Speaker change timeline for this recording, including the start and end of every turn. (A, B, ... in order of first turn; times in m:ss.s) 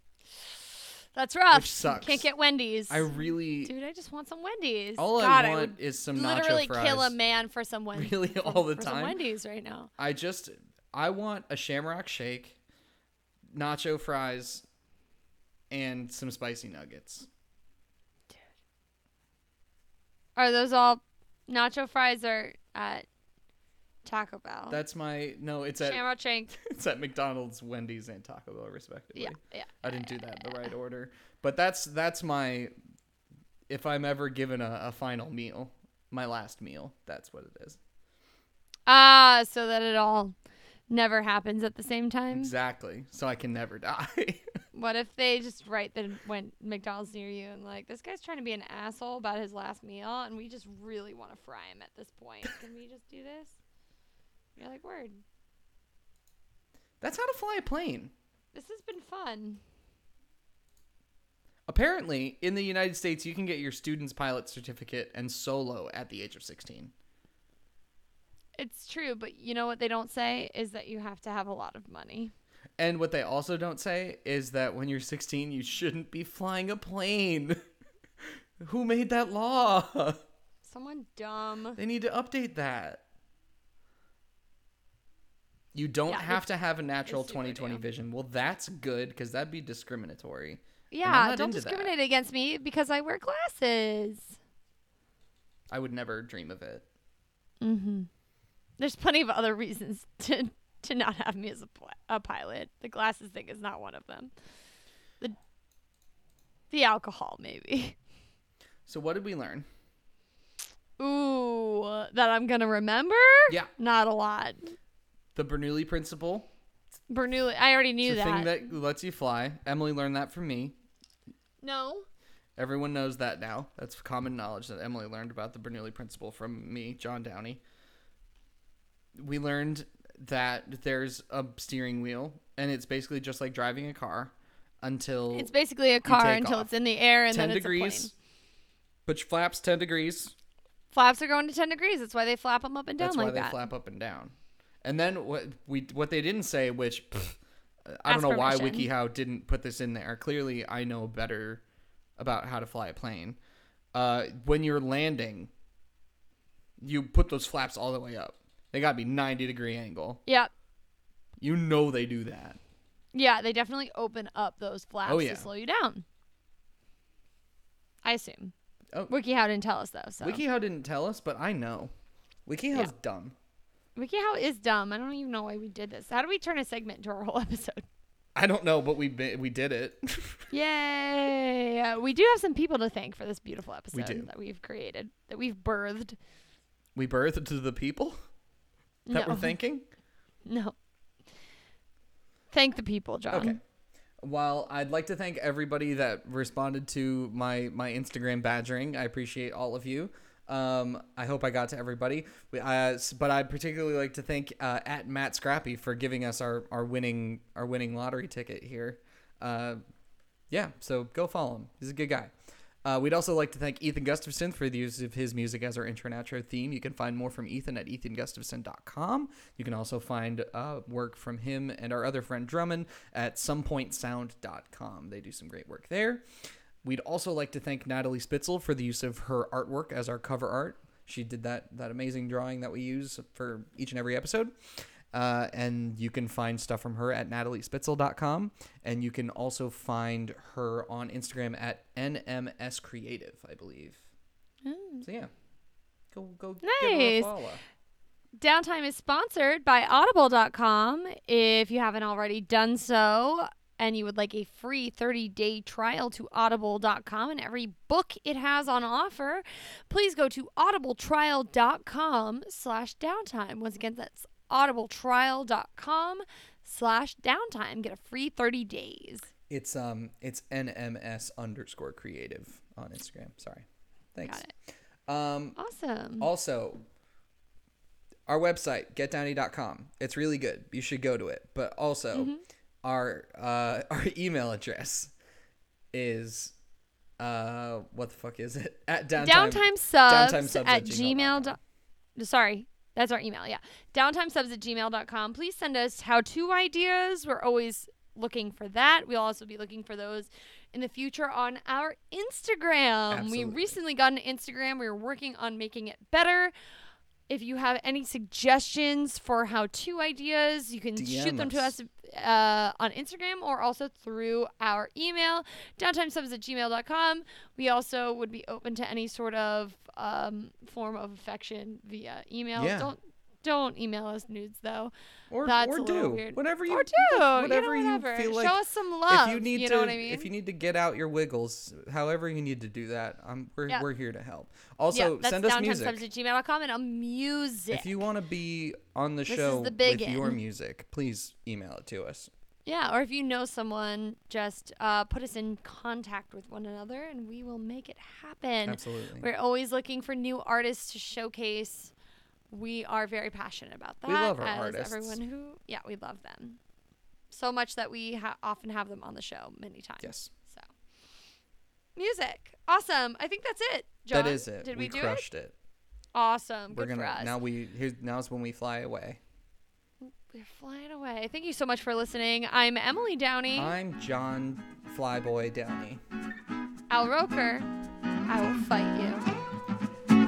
0:01.1-0:09.9 A
0:01.5-0:02.3 B
0:02.9-0:03.7 B
0:05.0-0:07.2 B
0:07.9-0:09.2 B
0:10.0-0:12.6 B
0:13.5-0:14.6 B
0:15.7-0:17.3 B
0:20.4-0:23.0 A
0:24.0-0:24.8 A
0:24.7-0:32.7 B
0:25.8-0:26.6 A
0:29.1-0:30.7 A
0:33.7-0:37.8 B
0:38.9-0:40.3 A
0:40.9-0:42.5 A
0:42.3-0:44.4 B
0:44.7-0:53.6 A
0:54.6-0:55.2 A
0:57.0-0:58.1 B
0:58.5-0:59.6 A
1:01.7-1:06.9 B
1:08.6-1:12.3 A
1:12.8-1:17.6 B
1:18.6-1:20.2 B
1:20.6-1:21.8 A
1:21.8-1:23.0 B
1:25.7-1:31.9 B
1:26.1-1:26.5 A
1:27.0-1:27.9 A
1:30.9-1:34.4 A
1:35.7-1:36.8 B
1:37.6-1:38.1 A
1:38.8-1:44.3 A
1:46.7-1:48.0 A
1:48.8-1:49.7 B
1:51.0-1:54.7 A
1:55.3-1:56.5 B
1:57.1-1:58.7 A
1:58.0-2:00.8 B
2:01.6-2:02.0 A
2:02.6-2:07.6 B
2:09.2-2:15.5 B
2:15.3-2:18.1 A
2:16.0-2:16.7 B
2:17.3-2:18.1 B
2:19.0-2:20.3 B
2:20.9-2:23.6 A
2:23.0-2:24.3 B
2:24.8-2:31.6 B
2:28.0-2:28.9 A
2:32.2-2:33.4 B
2:33.9-2:35.5 B
2:36.8-2:40.2 B
2:40.2-2:40.5 A
2:41.4-2:42.6 B
2:43.1-2:46.0 A
2:45.0-2:45.5 B
2:48.0-2:48.5 A
2:49.1-2:50.4 A
2:50.2-2:51.9 B
2:52.4-2:53.3 B
2:54.0-2:57.8 A
2:58.3-3:00.5 B
3:00.5-3:06.2 A
3:03.9-3:04.3 B
3:06.9-3:08.2 B
3:09.1-3:09.6 A
3:09.1-3:09.8 B
3:10.4-3:10.7 A
3:12.5-3:13.6 A
3:13.3-3:13.6 B
3:14.2-3:29.8 B
3:30.5-3:32.3 B
3:32.8-3:46.2 B
3:46.8-3:54.5 B
3:55.1-4:04.0 B
4:04.6-4:05.0 A
4:05.0-4:05.3 B
4:06.1-4:07.6 B
4:06.6-4:07.3 A
4:08.4-4:29.3 A
4:29.5-4:34.4 B
4:34.2-4:34.5 A
4:35.1-4:35.6 B
4:35.6-4:36.3 A
4:36.2-4:36.8 B
4:38.3-4:42.3 B
4:42.1-4:42.4 A
4:42.8-4:45.1 B
4:45.9-4:46.5 B
4:47.2-4:51.6 B
4:49.2-4:51.6 A
4:52.2-5:06.5 A
5:03.1-5:03.8 B
5:07.3-5:24.9 A
5:11.0-5:11.7 B
5:22.6-5:22.9 B
5:25.3-5:36.0 B
5:25.4-5:30.3 A
5:34.9-5:38.1 A
5:37.7-5:42.3 B
5:39.3-5:40.4 A
5:42.6-5:51.9 A
5:48.6-5:49.2 B
5:52.5-5:56.6 A
5:54.0-5:55.2 B
5:57.3-6:00.6 A
6:00.0-6:00.3 B
6:02.0-6:05.2 A
6:04.1-6:05.5 B
6:06.1-6:07.4 A
6:06.7-6:09.2 B
6:10.0-6:13.7 A
6:13.5-6:16.0 B
6:16.9-6:17.7 A
6:18.3-6:19.2 A